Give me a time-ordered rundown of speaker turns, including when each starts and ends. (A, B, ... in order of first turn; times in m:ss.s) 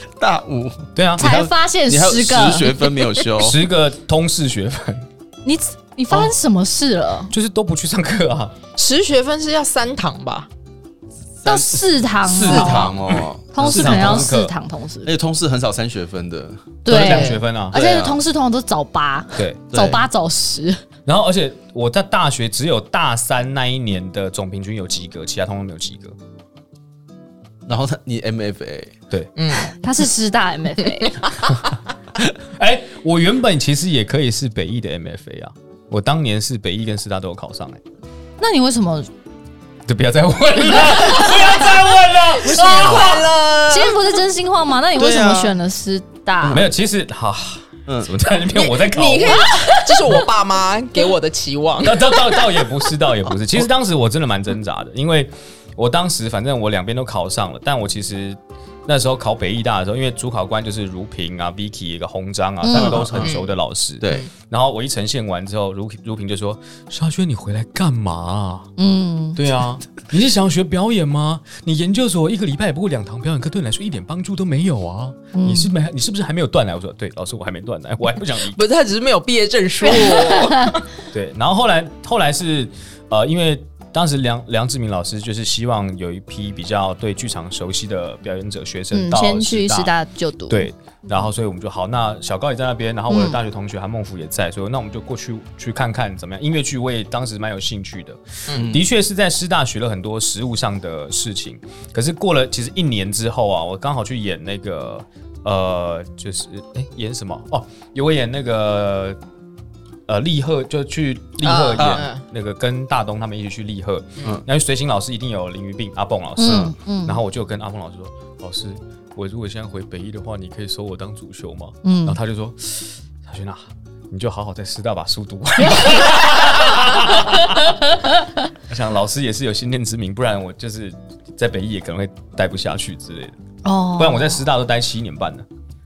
0:00.2-0:03.6 A
0:01.0-0:01.3 B
0:01.2-0:03.1 C
0:03.4-0:05.1 B
0:05.4-0:07.3 C
0:07.3-0:08.5 B
0:08.8-0:10.5 D
0:11.4-0:14.3 A
0:11.4-0:12.9 C
0:12.3-0:14.5 B
0:13.5-0:15.1 C
0:15.0-0:16.9 A
0:16.8-0:20.8 C
0:16.9-0:17.8 B
0:17.0-0:17.4 D
0:17.7-0:18.2 A
0:19.4-0:19.6 B
0:19.7-0:20.1 A
0:21.1-0:26.2 B
0:27.7-0:29.0 A
0:29.4-0:29.7 D
0:29.8-0:31.2 C
0:31.0-0:31.3 D
0:32.5-0:37.8 B
0:38.4-0:39.1 C
0:39.9-0:43.3 B
0:42.4-0:44.0 D
0:42.6-0:43.1 C
0:42.6-0:43.1 A
0:43.7-0:46.6 C
0:45.0-0:45.6 A
0:46.4-0:46.7 A
0:46.5-0:49.5 B
0:47.9-0:48.1 A
0:48.5-0:52.2 D
0:49.3-0:50.2 C
0:51.8-1:08.7 B
1:02.6-1:03.1 C
1:02.8-1:03.3 A
1:03.1-1:03.5 D
1:04.0-1:04.3 A
1:08.8-1:09.4 C
1:09.4-1:18.6 B
1:15.3-1:15.7 C
1:18.5-1:20.8 D
1:19.9-1:20.8 C
1:21.1-1:29.9 B
1:28.9-1:31.2 C
1:30.5-1:49.2 B
1:33.1-1:33.4 C
1:38.5-1:38.8 A
1:50.1-2:07.8 B
1:51.4-1:52.2 D
1:51.8-1:52.1 A
1:56.4-1:57.2 C
1:56.5-1:56.7 A
2:01.8-2:02.2 C
2:05.6-2:06.6 C
2:08.7-2:13.4 B
2:13.6-2:14.4 C
2:14.0-2:15.5 B